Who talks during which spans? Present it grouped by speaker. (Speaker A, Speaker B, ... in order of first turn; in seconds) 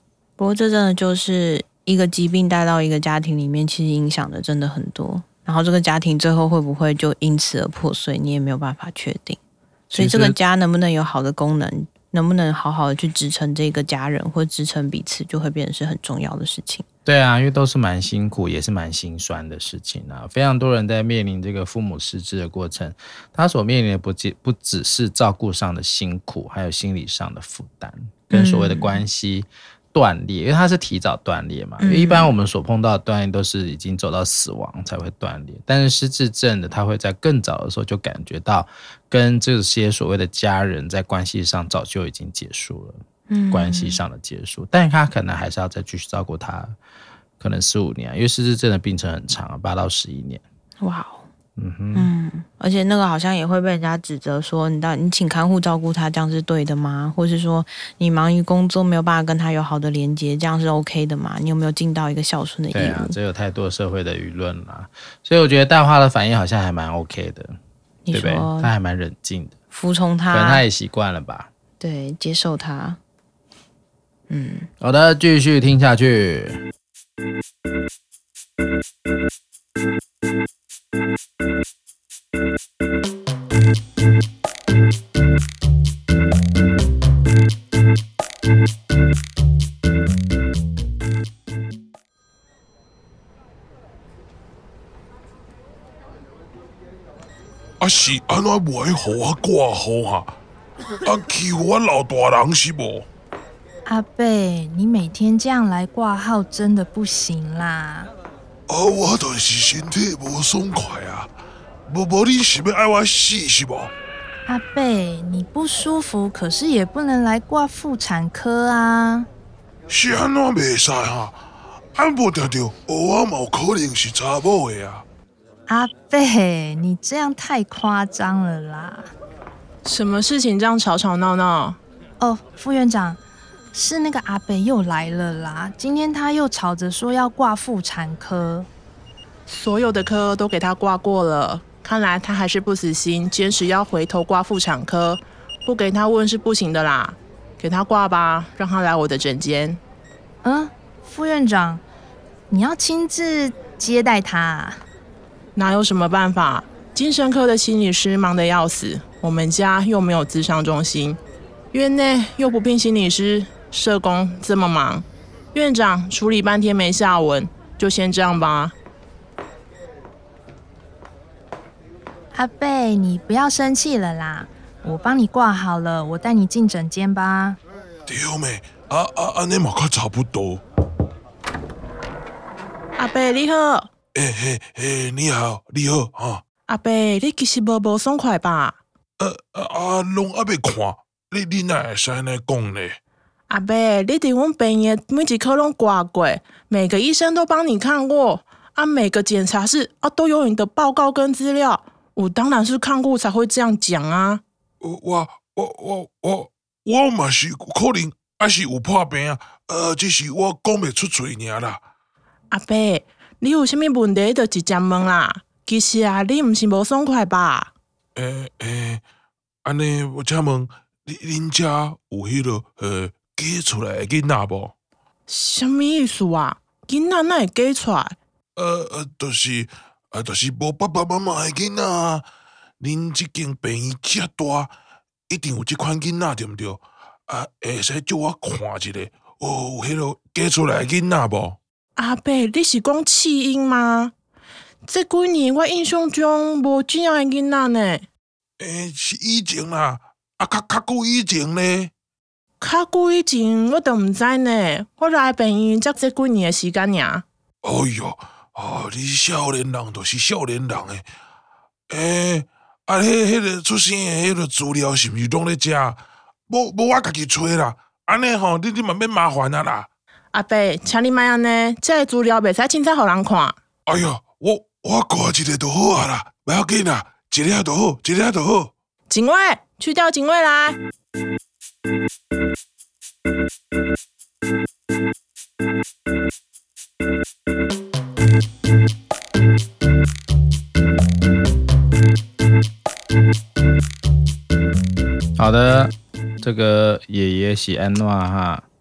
Speaker A: 0.4-9.4, 9.9-16.9, 28.3-29.0, 31.8-32.3, 43.3-44.0, 50.8-51.3, 51.9-63.1, 68.1-68.7, 69.7-70.6, 71.8-73.0, 74.3-74.7
Speaker B: 9.9-10.4, 17.1-43.0, 43.5-46.8, 47.4-50.4, 51.6-52.1, 62.7-67.6, 68.1-69.6, 70.3-71.5, 74.8-76.6, 295.4-298.6
Speaker C: 97.8-100.3, 101.0-103.1, 108.7-111.3, 111.9-113.9, 119.9-121.4, 122.0-125.0, 178.1-180.6, 184.2-186.4, 189.2-193.0, 204.8-211.8, 218.2-219.0, 219.7-224.7, 228.6-232.2, 232.8-234.7, 235.3-241.6, 248.6-251.9, 257.6-261.1, 261.9-269.9, 273.9-278.7
Speaker D: 103.9-108.1, 114.5-119.3, 125.7-129.1, 132.2-133.2, 133.7-138.7, 150.4-151.8, 152.5-154.8, 172.3-177.6
Speaker E: 129.8-131.8, 139.5-149.8, 155.6-161.2, 161.7-168.7, 183.0-183.9, 186.7-188.8, 193.5-204.4, 212.5-217.7, 225.3-228.2, 242.0-244.1, 244.8-248.1, 252.6-257.2, 270.3-273.6, 279.1-280.8